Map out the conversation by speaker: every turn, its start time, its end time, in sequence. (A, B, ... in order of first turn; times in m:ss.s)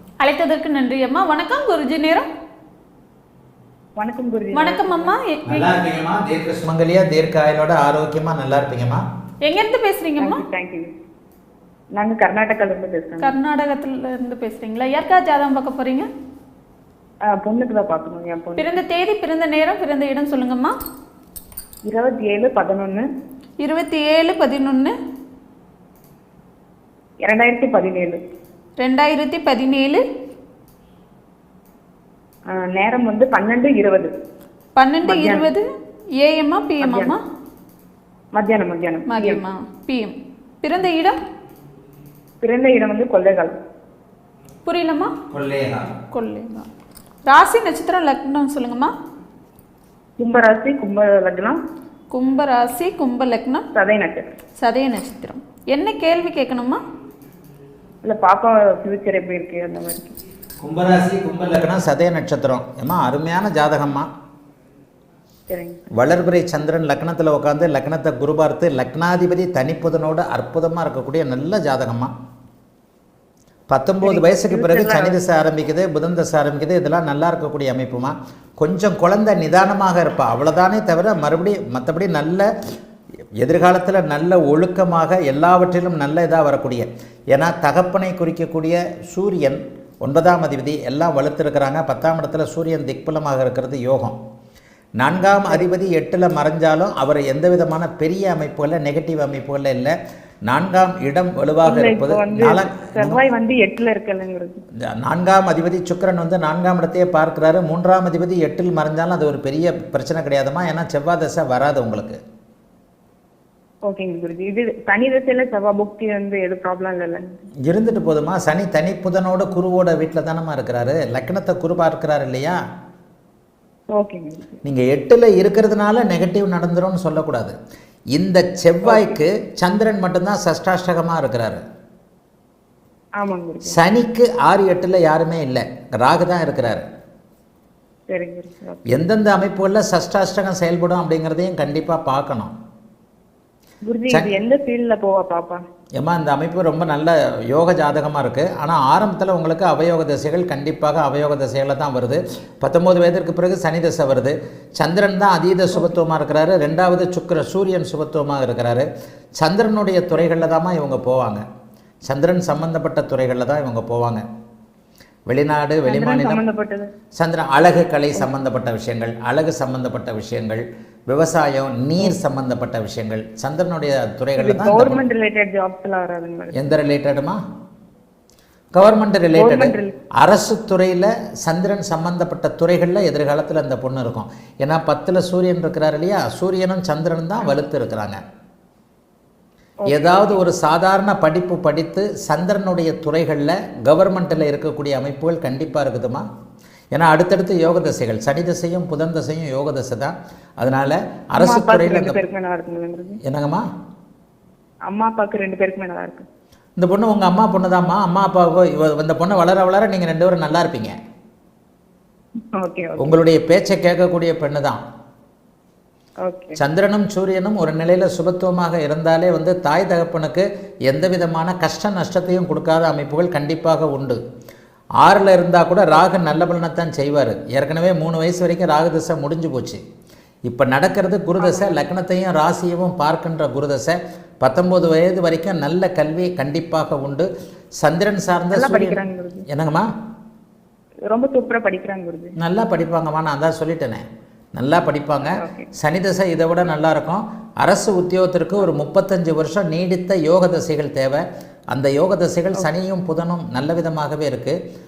0:00.2-0:02.2 A
0:04.0-0:05.1 B
0:04.5-0:05.7 A
0:05.5-0:09.0 C
0:09.4-0:10.4 A
0:10.2-0:10.9 B
0:11.9-0:13.3 B
0:13.2-0:16.1 A
0:17.2-0:18.8 B
0:18.6-0:20.7 A
0:21.8-0:23.0 B
0:23.6-0:24.9 A
0:27.2-0:28.2 B
0:28.8-0:30.0 A
0:32.5-0:34.1 B
0:34.8-0:35.6 A
0:35.0-0:35.5 B
0:36.2-0:37.2 A
0:36.8-0:37.2 B
0:38.3-0:39.4 B
0:39.1-0:41.2 A
0:42.4-0:43.5 B
0:44.6-0:45.1 A
0:45.3-0:45.9 C
0:46.1-0:46.7 A
0:47.2-0:48.9 A
0:50.2-0:51.6 B
0:52.1-0:53.6 A
0:53.7-0:54.3 B
0:54.6-0:56.8 A
0:58.0-1:00.2 B
1:00.6-1:04.1 C
1:05.5-1:05.9 B
1:05.9-1:12.1 C
1:13.7-1:22.5 C
1:14.0-1:15.2 B
1:23.4-1:34.2 C
1:35.0-1:39.9 C
1:40.5-1:43.2 C
1:41.6-1:44.6 B
1:44.9-1:52.2 C
1:53.8-1:57.4 B
1:57.6-2:02.6 C
2:03.9-2:04.6 B
2:04.6-2:07.5 C
2:08.1-2:11.6 C
2:08.8-2:09.2 B
2:13.2-2:13.8 B
2:13.7-2:16.8 C
2:18.1-2:18.8 B
2:18.9-2:22.5 C
2:23.8-2:25.6 B
2:26.0-2:41.4 C
2:42.0-2:44.2 C
2:45.3-2:46.4 C
2:45.8-2:46.9 B
2:47.2-2:55.0 C
2:54.4-2:56.6 B
2:56.5-2:57.4 C
2:58.7-3:08.2 C
2:59.3-2:59.9 B
3:09.8-3:10.4 B
3:09.9-3:16.2 C
3:16.9-3:22.2 C
3:21.4-3:23.2 B
3:23.2-3:23.6 C
3:24.9-3:26.2 B
3:26.8-3:30.9 C
3:32.5-3:33.2 B
3:33.0-3:34.8 C
3:36.2-3:36.6 B
3:36.6-3:44.2 C
3:45.0-3:49.8 C
3:50.5-3:59.9 C
3:51.4-3:51.8 B
3:58.5-3:59.4 B
4:01.1-4:02.3 B
4:02.4-4:11.2 C
4:05.3-4:05.7 B
4:11.7-4:14.6 C